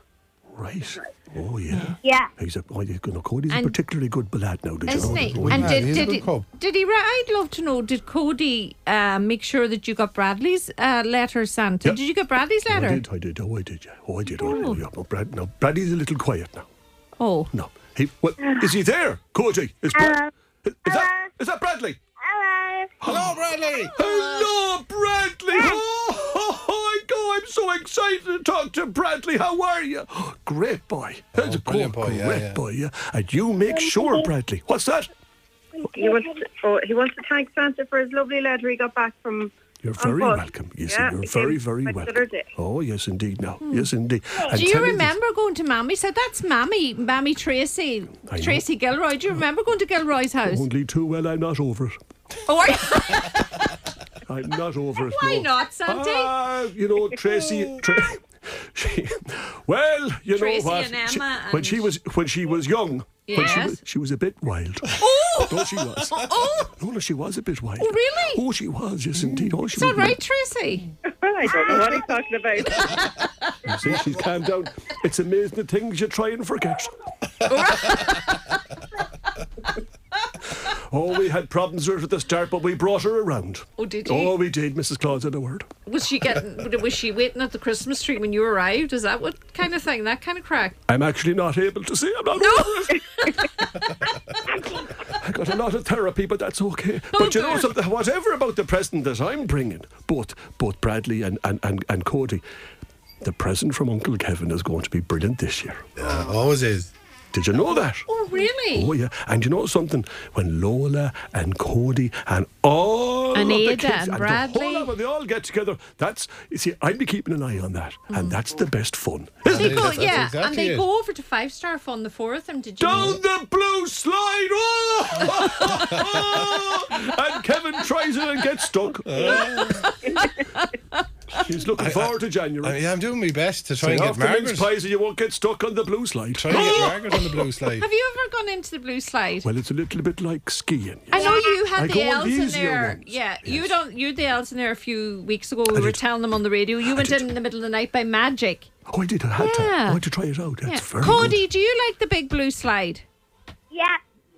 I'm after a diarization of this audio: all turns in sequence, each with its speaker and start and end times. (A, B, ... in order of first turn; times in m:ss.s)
0:00.5-0:06.0 A
0:02.0-0:02.3 B
0:03.5-0:03.8 C
0:04.9-0:13.0 C
0:04.9-0:06.4 D
0:12.7-0:16.7 A
0:14.4-0:14.8 C
0:17.2-0:17.5 C
0:17.5-0:22.0 A
0:19.9-0:20.3 B
0:20.9-0:21.3 B
0:22.2-0:23.0 B
0:23.0-0:23.4 A
0:23.0-0:23.9 D
0:23.9-0:24.5 C
0:24.0-0:35.1 A
0:31.3-0:32.6 D
0:33.7-0:34.3 B
0:35.8-0:36.4 B
0:36.0-0:39.5 E
0:39.8-0:45.1 A
0:40.0-0:42.4 E
0:43.6-0:43.9 C
0:44.5-0:50.6 C
0:48.3-0:48.6 A
0:50.4-0:52.0 A
0:52.4-0:53.8 C
0:54.3-1:10.2 A
0:55.0-0:56.3 C
1:00.3-1:01.9 C
1:03.3-1:03.8 C
1:05.0-1:06.7 C
1:07.8-1:08.4 C
1:09.2-1:09.5 D
1:09.7-1:10.9 C
1:11.2-1:12.6 E
1:12.8-1:13.5 C
1:13.6-1:16.9 A
1:17.4-1:18.6 C
1:20.7-1:25.7 A
1:23.8-1:24.4 C
1:25.9-1:30.8 C
1:30.9-1:33.0 A
1:32.4-1:33.5 C
1:35.1-1:42.4 A
1:37.1-1:37.7 C
1:43.2-1:45.9 A
1:46.0-1:46.9 D
1:47.3-1:48.2 A
1:48.1-1:48.9 C
1:48.7-2:00.0 A
1:53.3-1:54.9 C
1:58.1-1:58.4 C
1:59.4-2:00.9 D
1:59.5-2:03.2 C
2:02.8-2:09.7 A
2:02.9-2:03.2 D
2:05.6-2:06.4 D
2:09.0-2:10.0 D
2:09.2-2:11.0 C
2:11.4-2:12.8 A
2:11.8-2:14.7 D
2:13.8-2:17.0 A
2:16.4-2:17.9 D
2:16.5-2:19.5 C
2:19.4-2:23.7 A
2:21.1-2:28.7 C
2:21.2-2:21.5 B
2:25.7-2:26.0 A
2:26.8-2:27.3 A
2:28.9-2:31.4 A
2:29.4-2:30.0 C
2:30.6-2:33.1 C
2:33.7-2:34.0 B